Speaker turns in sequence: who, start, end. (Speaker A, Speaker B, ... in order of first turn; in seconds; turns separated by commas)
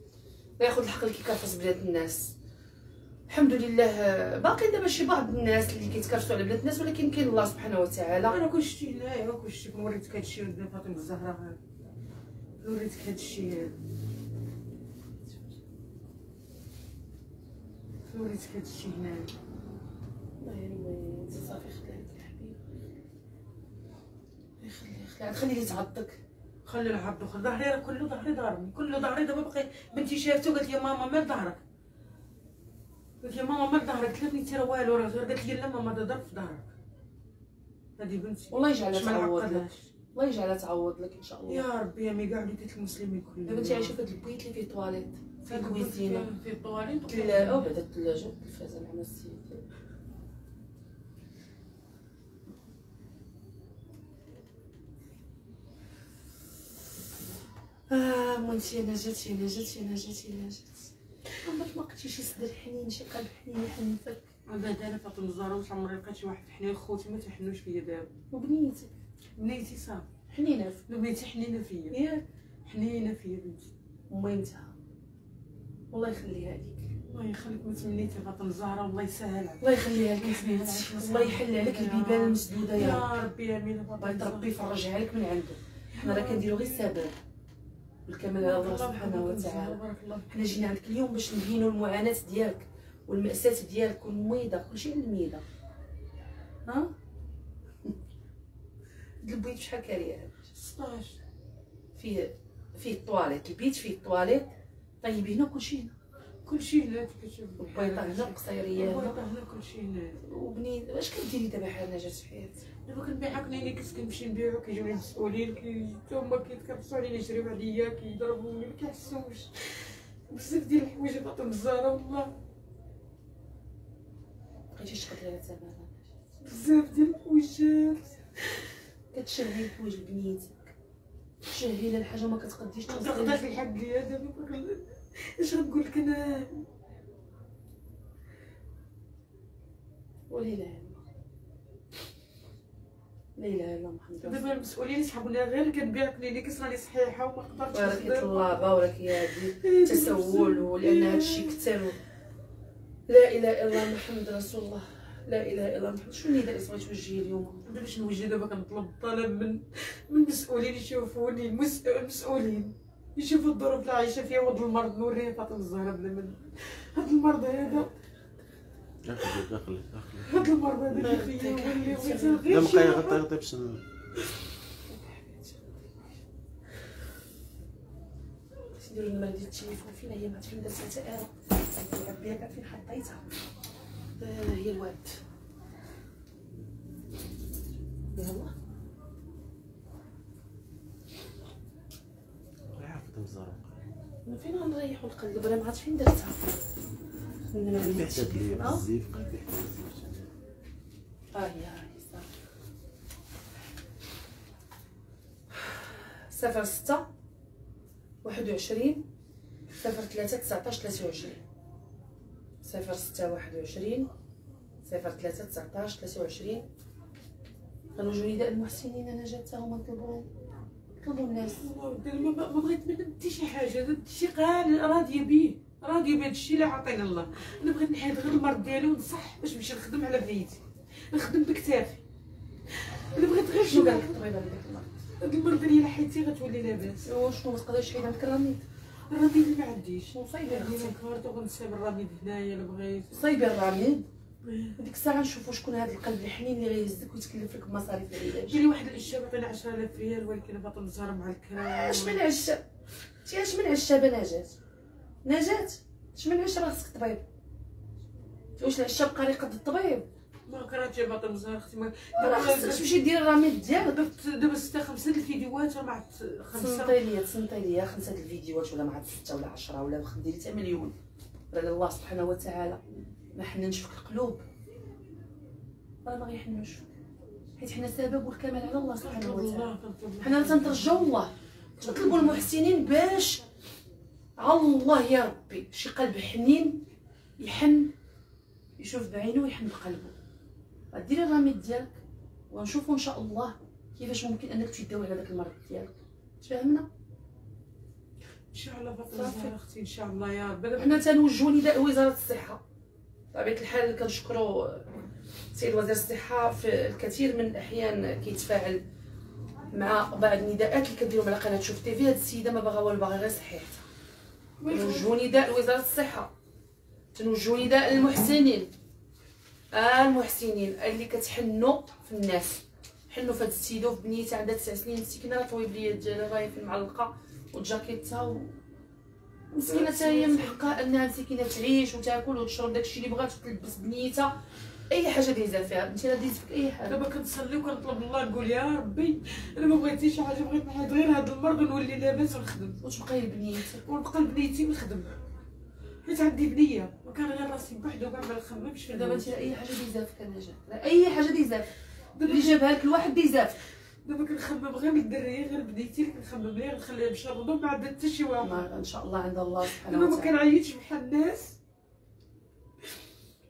Speaker A: 0.6-2.3, Speaker A: 3.3-8.4, Speaker B: 8.2-11.6, Speaker B: 12.6-13.7, Speaker B: 18.1-19.3, Speaker A: 20.4-22.6, Speaker A: 24.6-26.2, Speaker B: 26.6-31.6, Speaker B: 33.2-36.7, Speaker B: 38.0-39.9, Speaker A: 38.5-41.7, Speaker B: 41.5-44.0, Speaker A: 43.4-46.3, Speaker B: 45.5-47.7, Speaker A: 47.0-49.6, Speaker A: 57.9-60.9, Speaker A: 61.4-64.3, Speaker B: 64.5-68.1, Speaker A: 68.3-68.9, Speaker B: 69.4-70.1, Speaker A: 70.3-70.8, Speaker B: 70.9-72.0, Speaker A: 71.9-72.2, Speaker B: 72.6-73.7, Speaker A: 74.1-74.7, Speaker A: 75.9-76.9, Speaker B: 77.1-84.8, Speaker A: 79.6-83.0, Speaker A: 84.0-87.1, Speaker B: 85.9-86.9, Speaker A: 88.1-89.8, Speaker B: 88.4-90.3, Speaker A: 90.3-95.4, Speaker A: 96.7-96.9, Speaker A: 99.2-100.4, Speaker B: 100.5-101.2, Speaker A: 101.9-104.5, Speaker A: 105.0-105.9, Speaker B: 106.4-110.2, Speaker A: 107.6-109.2, Speaker A: 110.2-112.6, Speaker B: 112.8-122.3, Speaker A: 124.7-126.1, Speaker B: 126.4-128.4, Speaker A: 129.1-130.7, Speaker A: 131.5-133.4, Speaker B: 132.9-136.7, Speaker A: 140.3-141.0, Speaker A: 143.3-144.4, Speaker B: 144.2-148.7, Speaker A: 147.7-152.0, Speaker B: 149.3-151.6, Speaker A: 153.1-157.7, Speaker B: 157.7-167.9, Speaker C: 169.0-170.5, Speaker B: 170.2-173.2, Speaker A: 170.9-172.7, Speaker C: 172.5-173.8, Speaker A: 174.9-176.0, Speaker A: 178.7-183.3, Speaker A: 184.2-185.2, Speaker A: 188.1-188.5, Speaker C: 192.8-193.7, Speaker A: 194.2-196.6, Speaker A: 197.5-198.8, Speaker C: 197.7-200.3, Speaker A: 201.3-202.3, Speaker A: 205.5-207.1, Speaker A: 208.2-209.1, Speaker A: 209.8-211.4, Speaker A: 212.6-214.1, Speaker A: 214.8-216.7, Speaker A: 217.9-220.3, Speaker A: 221.0-221.7, Speaker B: 221.5-232.0, Speaker B: 232.7-234.2, Speaker A: 233.6-235.0, Speaker B: 235.2-237.0, Speaker A: 237.0-238.6, Speaker B: 239.1-243.2, Speaker A: 240.1-241.0, Speaker A: 243.1-244.1, Speaker B: 244.4-244.8, Speaker A: 244.8-248.6, Speaker B: 248.5-252.2, Speaker A: 251.6-252.6, Speaker A: 253.2-254.6, Speaker A: 255.2-257.2, Speaker A: 258.6-260.1, Speaker B: 260.5-263.0, Speaker A: 262.2-264.1, Speaker B: 263.8-266.9, Speaker A: 266.5-270.9, Speaker A: 271.5-274.4, Speaker A: 276.0-276.9, Speaker A: 277.6-283.4, Speaker B: 278.9-281.1, Speaker B: 281.8-282.4, Speaker A: 284.4-286.9, Speaker A: 287.4-287.9, Speaker A: 288.8-290.1, Speaker A: 290.9-292.0, Speaker A: 292.5-296.9, Speaker B: 298.5-301.0, Speaker A: 299.1-299.5, Speaker A: 300.8-302.6, Speaker A: 303.3-304.9, Speaker A: 305.5-308.8, Speaker A: 309.7-313.9, Speaker B: 314.6-315.1, Speaker A: 314.7-316.3, Speaker A: 317.1-318.7, Speaker A: 319.7-328.6, Speaker A: 329.5-334.3, Speaker B: 329.6-330.8, Speaker A: 334.9-337.0, Speaker B: 336.9-342.8, Speaker A: 342.8-343.8, Speaker B: 343.8-345.1, Speaker B: 346.0-349.5, Speaker A: 348.9-351.7, Speaker B: 352.1-352.6, Speaker A: 352.2-353.5, Speaker B: 354.0-358.6, Speaker A: 358.4-360.4, Speaker B: 359.7-361.6